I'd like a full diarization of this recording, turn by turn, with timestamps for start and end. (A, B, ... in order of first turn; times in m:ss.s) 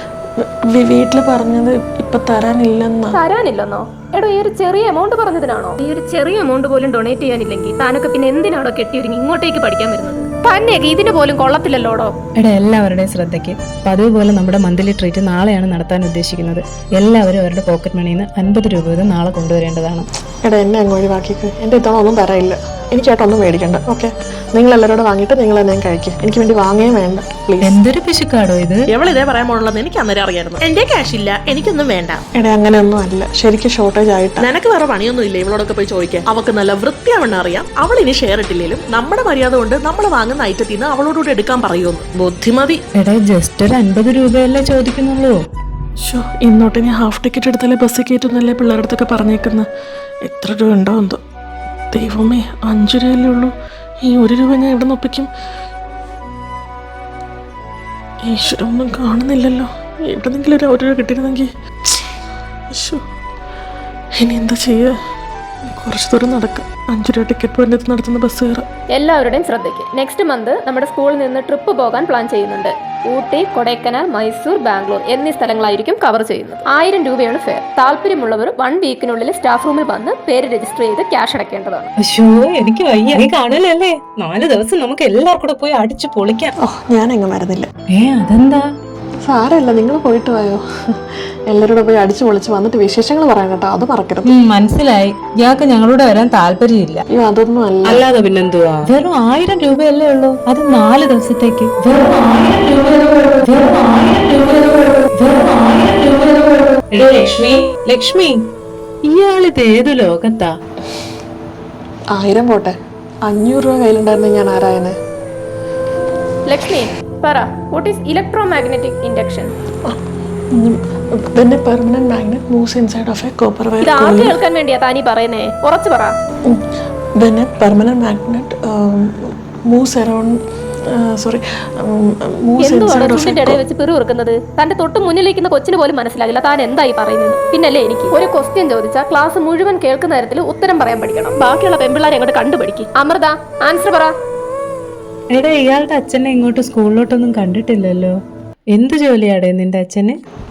0:00.7-0:03.2 A
0:03.1-0:12.1 B
0:12.4-0:20.1 C
0:20.4-0:27.8 A
0:27.6-0:28.8 C
0:28.9-0:32.2 D
0:32.4-0:34.4 A
0:34.4-0:42.8 D
0:43.0-0:45.4 C
0:46.1-0:49.7 A
0:50.3-0:51.2 A
0:51.9-0:53.5 A
0:54.0-0:55.3 A
0:58.2-1:02.0 A
1:02.7-1:03.0 A
1:04.2-1:04.9 A
1:05.8-1:08.6 A
1:09.0-1:21.9 B
1:22.0-1:26.5 C
1:26.6-1:27.7 A
1:28.0-1:28.6 C
1:29.2-1:34.3 A
1:34.2-1:37.0 C
1:37.1-1:38.0 A
1:37.9-1:48.4 C
1:49.1-1:50.5 C
1:52.1-1:52.8 A
1:53.3-1:55.0 A
1:56.5-1:59.5 B
2:01.4-2:04.4 A
2:03.8-2:06.1 B
2:07.2-2:10.4 A
2:10.9-2:13.6 A
2:12.6-2:24.1 B
2:25.3-2:28.2 C
2:28.7-2:30.2 C